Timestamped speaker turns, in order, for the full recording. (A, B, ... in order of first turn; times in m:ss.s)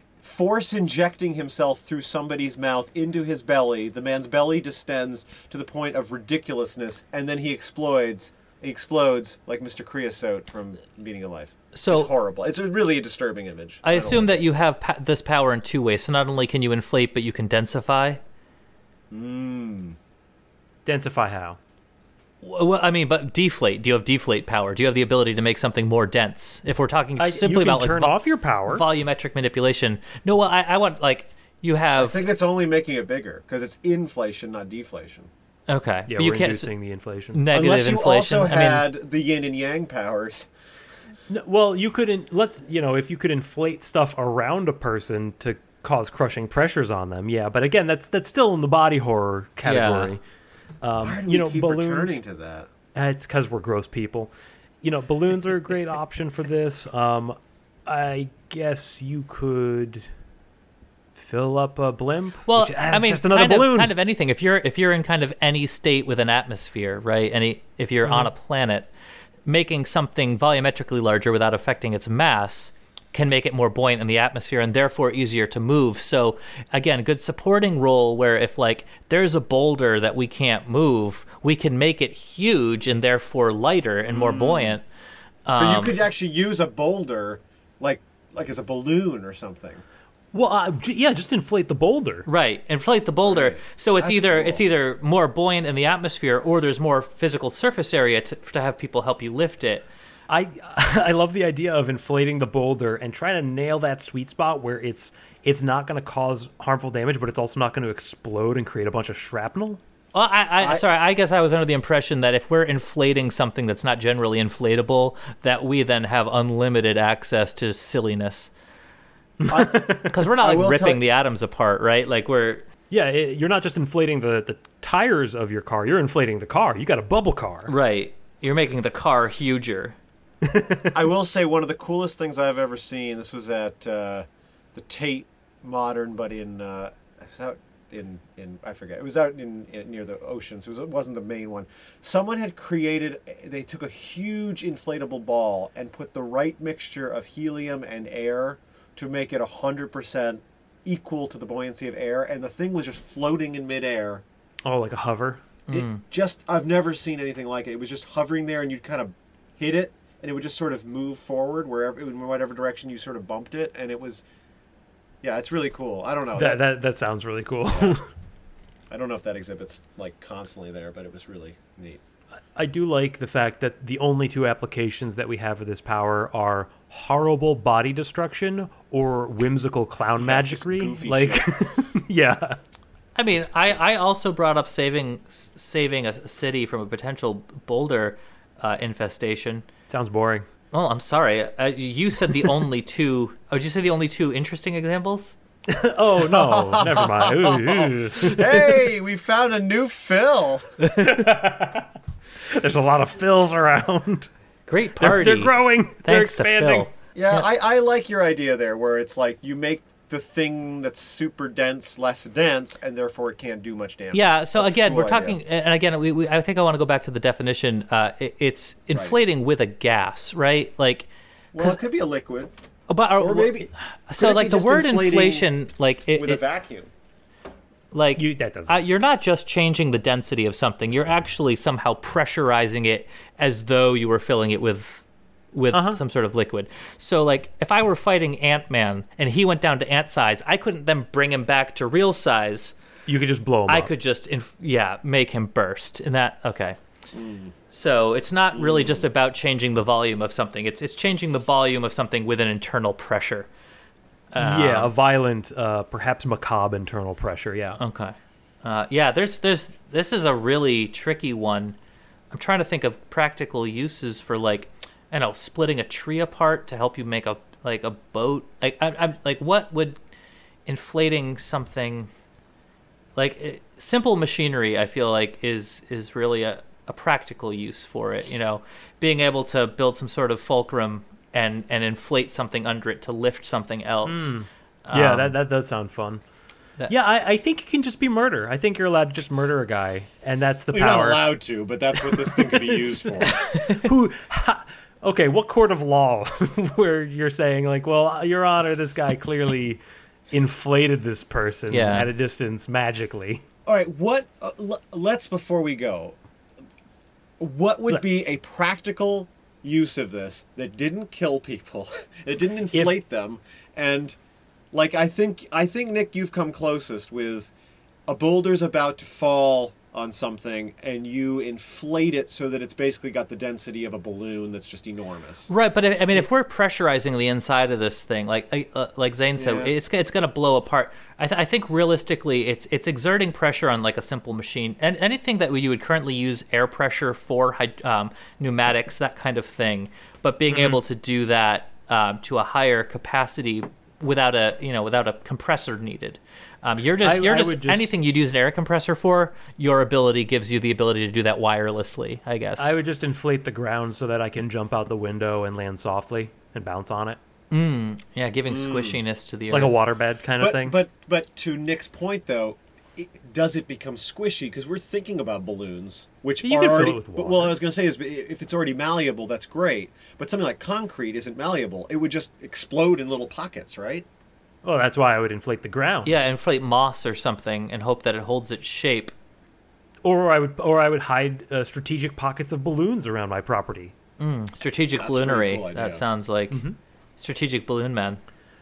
0:00.2-0:14.4 A
0:11.7-0:12.1 B
0:13.8-0:18.2 B
0:19.1-0:20.0 A
0:20.9-0:21.6 C
0:22.4-0:32.3 B
0:27.2-0:28.9 C
0:32.0-0:35.3 A
0:35.7-0:36.7 B
0:36.1-0:37.4 C
0:37.3-0:38.9 B
0:37.5-0:40.5 A
0:41.3-0:50.2 C
0:49.6-0:50.2 B
0:50.8-0:52.2 C
0:51.0-0:52.7 A
0:53.0-0:54.3 C
0:54.8-1:00.0 C
1:01.2-1:04.0 C
1:02.5-1:08.9 B
1:08.0-1:08.3 C
1:09.5-1:24.8 B
1:24.1-1:24.8 A
1:25.5-1:26.0 B
1:25.5-1:29.8 A
1:30.3-1:32.3 C
1:32.3-1:39.9 B
1:33.2-1:34.6 A
1:40.3-1:49.8 C
1:50.1-1:58.5 B
1:59.4-2:00.2 C
1:59.5-2:01.0 A
2:00.1-2:02.7 B
2:02.9-2:07.7 C
2:07.7-2:10.0 B
2:10.4-2:10.9 C
2:10.9-2:34.2 A
2:34.6-2:35.4 C
2:35.7-2:36.0 B
2:35.7-2:44.2 A
2:45.2-2:46.6 A
2:46.4-2:48.1 C
2:47.7-2:48.0 A
2:48.9-2:52.0 A
2:52.6-3:02.6 C
3:00.2-3:01.5 A
3:03.2-3:09.6 B
3:09.9-3:10.5 C
3:10.7-3:15.4 B
3:15.7-3:18.7 C
3:16.2-3:20.6 A
3:20.9-3:21.9 C
3:22.5-3:24.3 C
3:24.7-3:27.4 B
3:25.0-3:26.9 C
3:27.2-3:35.4 A
3:34.1-3:41.8 B
3:41.5-3:42.5 A
3:42.9-3:46.4 B
3:43.2-3:45.5 A
3:46.2-3:46.9 A
3:47.9-3:55.0 B
3:48.2-3:48.8 C
3:55.5-4:02.8 B
3:55.7-3:56.0 C
4:03.1-4:03.9 C
4:03.7-4:06.8 B
4:07.1-4:07.5 A
4:07.7-4:13.5 B
4:08.6-4:09.1 A
4:14.3-4:14.9 B
4:14.4-4:17.8 C
4:17.8-4:21.8 B
4:22.3-4:30.0 B
4:30.7-4:32.1 B
4:33.2-4:45.4 B
4:44.0-4:46.2 C
4:46.9-4:51.4 C
4:50.7-4:53.4 A
4:52.2-5:03.4 C
4:53.3-4:53.9 B
5:01.7-5:02.1 B
5:03.7-5:06.2 A
5:07.4-5:14.2 A
5:14.7-5:17.5 A
5:18.1-5:25.5 A
5:25.5-5:52.7 B
5:29.4-5:29.7 A
5:40.5-5:40.8 C
5:47.0-5:48.0 C
5:52.6-5:57.2 C
5:57.5-5:59.8 B
5:58.5-5:59.0 A
5:59.5-6:00.8 C
6:00.4-6:14.1 A
6:06.4-6:07.6 C
6:14.6-6:16.1 C
6:16.0-6:19.1 B
6:20.0-6:23.9 C
6:24.2-6:26.6 B
6:25.0-6:26.0 A
6:26.5-6:26.8 C
6:27.2-6:28.2 B